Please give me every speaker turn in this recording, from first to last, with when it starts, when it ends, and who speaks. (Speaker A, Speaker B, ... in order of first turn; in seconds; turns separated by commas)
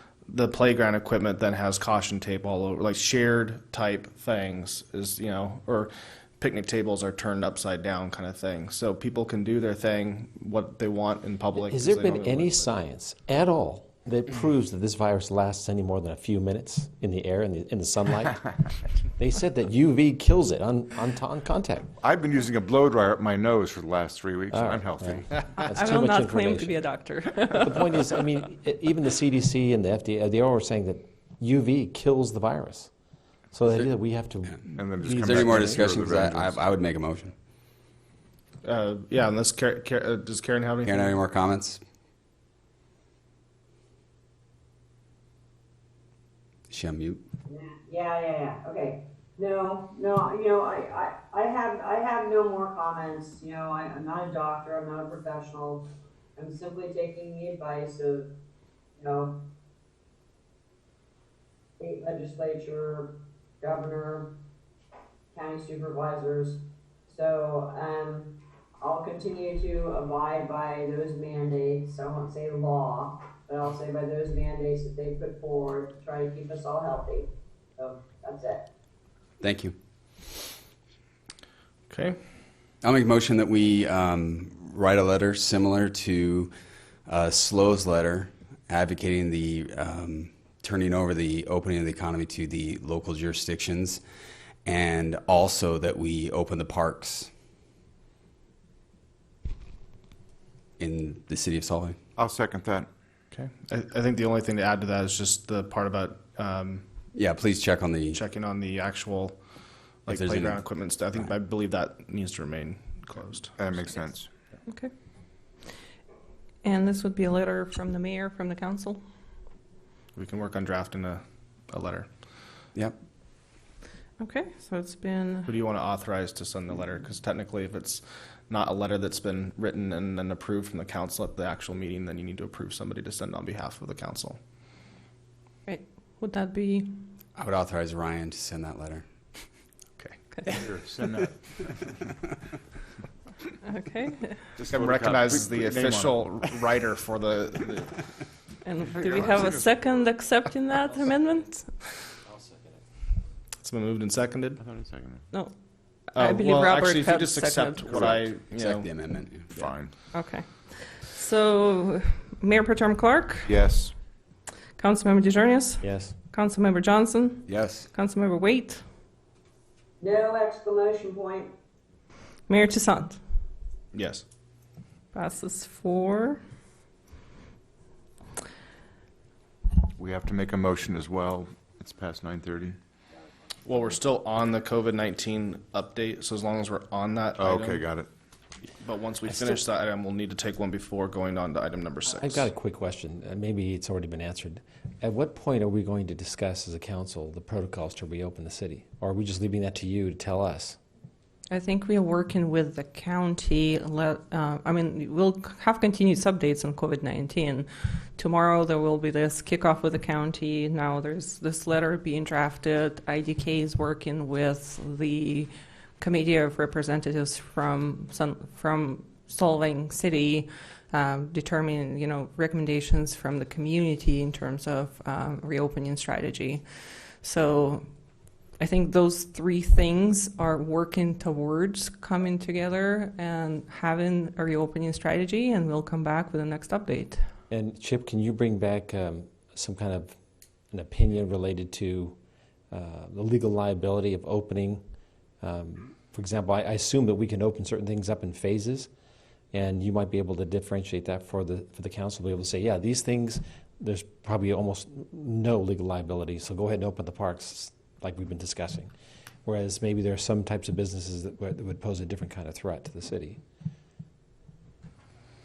Speaker A: 0.3-12.7, Speaker B: 11.6-21.9, Speaker C: 22.0-25.3, Speaker B: 24.5-32.9, Speaker D: 25.5-28.2, Speaker B: 33.5-35.9, Speaker C: 34.7-36.6, Speaker E: 35.2-37.3, Speaker A: 38.6-41.1, Speaker E: 40.8-41.8, Speaker E: 46.7-47.2, Speaker F: 47.5-55.8, Speaker F: 56.4-58.3, Speaker F: 59.0-59.4, Speaker F: 61.8-64.3, Speaker F: 65.3-78.7, Speaker E: 79.4-79.7, Speaker A: 81.9-82.2, Speaker E: 82.8-86.5, Speaker E: 87.0-94.0, Speaker E: 94.6-97.3, Speaker E: 100.8-102.0, Speaker C: 102.2-102.9, Speaker A: 103.3-106.8, Speaker E: 107.1-108.2, Speaker A: 108.1-109.4, Speaker A: 110.0-113.6, Speaker E: 110.1-111.3, Speaker C: 113.6-114.3, Speaker D: 114.7-114.9, Speaker D: 116.6-119.0, Speaker A: 120.1-122.1, Speaker D: 124.2-125.5, Speaker A: 125.5-134.4, Speaker D: 135.7-136.9, Speaker E: 137.3-139.0, Speaker C: 140.5-141.8, Speaker D: 143.6-144.4, Speaker C: 144.6-146.6, Speaker A: 144.7-148.0, Speaker D: 148.6-151.9, Speaker C: 148.9-149.8, Speaker B: 152.2-152.7, Speaker A: 153.6-154.6, Speaker C: 154.6-155.3, Speaker D: 156.1-158.0, Speaker A: 156.2-158.9, Speaker E: 157.9-159.6, Speaker C: 159.5-159.9, Speaker D: 160.1-163.6, Speaker C: 163.4-163.9, Speaker D: 164.8-168.8, Speaker B: 165.8-166.1, Speaker E: 167.5-167.9, Speaker F: 170.0-171.5, Speaker D: 172.5-173.2, Speaker A: 173.9-174.2, Speaker D: 175.1-176.4, Speaker C: 179.9-182.8, Speaker A: 183.6-187.8, Speaker C: 187.4-188.1, Speaker A: 188.8-192.5, Speaker B: 189.3-189.6, Speaker B: 192.1-200.8, Speaker D: 201.5-227.8, Speaker D: 228.6-237.2, Speaker B: 237.5-240.1, Speaker B: 240.7-242.2, Speaker B: 242.7-244.8, Speaker B: 245.4-248.9, Speaker B: 249.5-258.9, Speaker B: 259.4-263.4